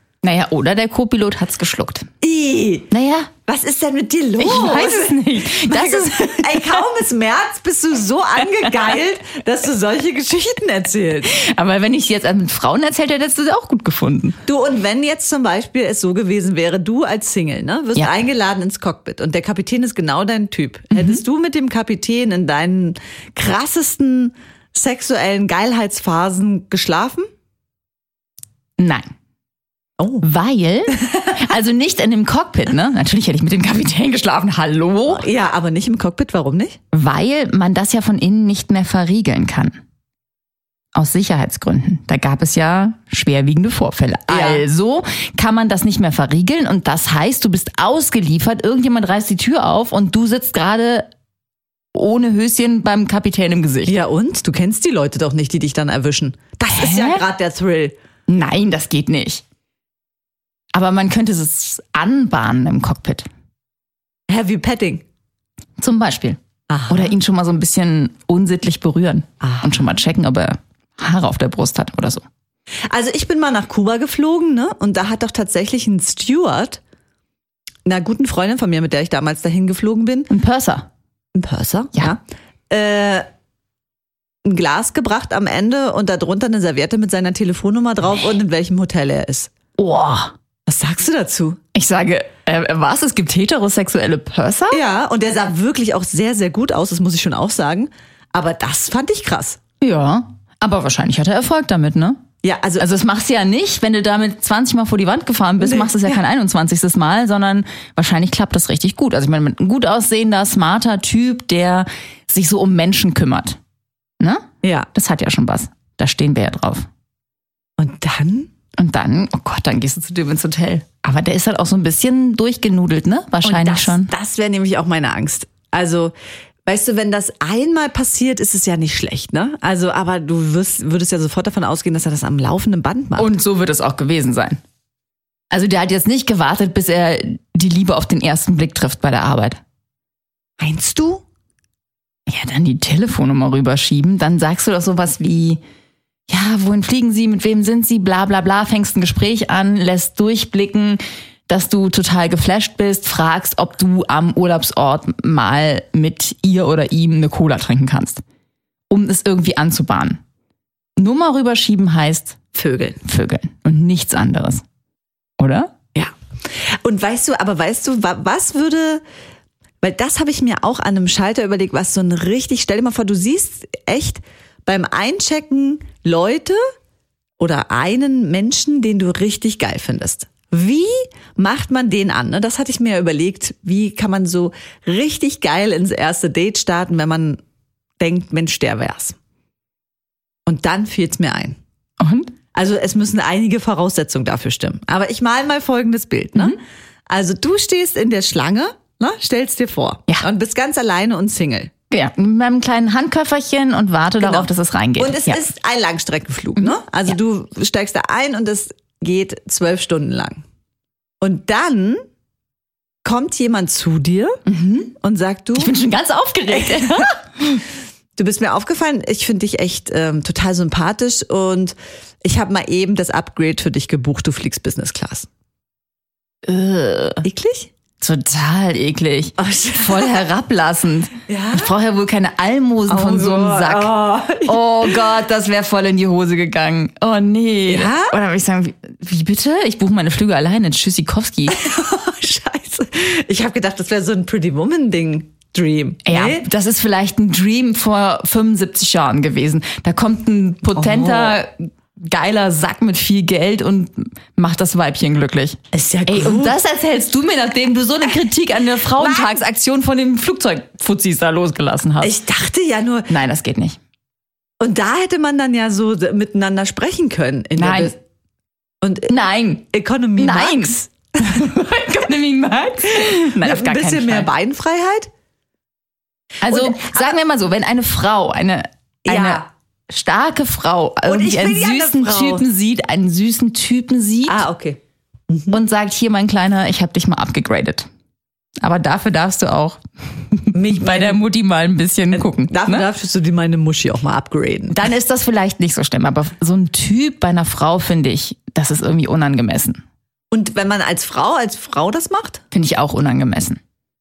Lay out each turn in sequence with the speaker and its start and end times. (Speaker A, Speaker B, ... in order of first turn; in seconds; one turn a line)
Speaker A: 0.2-2.1
Speaker B: 2.2-2.9
Speaker A: 2.9-3.3
Speaker B: 3.5-11.3
Speaker A: 4.4-6.8
Speaker A: 11.2-14.4
Speaker B: 14.4-27.3
Speaker A: 20.9-21.2
Speaker A: 28.8-29.0
Speaker B: 30.0-30.2
Speaker A: 30.2-35.3
Speaker B: 35.1-36.8
Speaker A: 36.9-39.7
Speaker A: 40.9-51.1
Speaker B: 44.3-44.6
Speaker A: 51.9-54.0
Speaker B: 53.9-57.9
Speaker A: 56.7-57.2
Speaker A: 58.3-59.4
Speaker A: 60.7-63.2
Speaker B: 64.3-65.0
Speaker A: 65.8-72.2
Speaker B: 66.7-67.2
Speaker B: 69.4-69.9
Speaker B: 72.9-76.8
Speaker B: 77.8-80.3
Speaker A: 80.3-80.9
Speaker B: 81.3-83.2
Speaker B: 84.4-89.5
Speaker A: 89.8-90.3
Speaker B: 90.7-91.6
Speaker A: 91.7-94.8
Speaker B: 94.7-99.6
Speaker A: 99.8-102.2
Speaker B: 102.4-102.9
Speaker A: 102.8-113.6
Speaker B: 105.6-106.1
Speaker A: 114.2-116.9
Speaker B: 114.6-114.9
Speaker B: 117.8-118.5
Speaker A: 118.8-124.1
Speaker B: 123.4-126.1
Speaker B: 126.7-133.3
Speaker A: 133.2-134.6
Speaker A: 135.5-139.6
Speaker B: 140.6-141.2
Speaker A: 142.3-145.6
Speaker A: 146.3-158.2
Speaker A: 158.9-160.2
Speaker A: 161.0-162.4
Speaker B: 162.5-163.0
Speaker A: 163.0-164.6
Speaker A: 165.4-165.7
Speaker B: 166.8-169.0
Speaker B: 169.8-176.6
Speaker B: 177.4-187.4
Speaker B: 188.0-189.1
Speaker B: 190.4-191.6
Speaker A: 192.0-192.3
Speaker B: 192.5-201.7
Speaker A: 201.9-205.4
Speaker B: 204.2-210.4
Speaker A: 206.6-207.2
Speaker B: 211.2-212.0
Speaker B: 213.0-214.4
Speaker A: 214.4-214.9
Speaker B: 215.0-215.7
Speaker A: 215.5-217.6
Speaker B: 216.5-217.1
Speaker B: 218.2-225.3
Speaker A: 226.4-227.2
Speaker B: 227.2-227.7
Speaker A: 228.0-241.6
Speaker B: 229.4-230.3
Speaker B: 231.3-231.7
Speaker B: 232.9-235.1
Speaker B: 237.7-238.1
Speaker B: 241.5-246.5
Speaker A: 246.1-262.1
Speaker B: 250.7-251.4
Speaker B: 255.7-256.6
Speaker B: 258.9-259.4
Speaker B: 262.0-263.1
Speaker A: 263.1-263.8
Speaker B: 264.6-268.0
Speaker A: 267.6-267.9
Speaker B: 268.8-269.1
Speaker A: 269.1-274.3
Speaker B: 269.7-271.4
Speaker B: 273.3-275.1
Speaker A: 276.4-284.4
Speaker B: 276.5-277.2
Speaker B: 279.1-279.5
Speaker B: 281.1-282.5
Speaker B: 284.2-284.8
Speaker B: 285.3-285.6
Speaker A: 285.5-287.9
Speaker A: 288.6-292.9
Speaker B: 290.5-291.2
Speaker B: 292.1-294.8
Speaker A: 294.7-299.8
Speaker B: 300.3-302.4
Speaker A: 302.5-303.6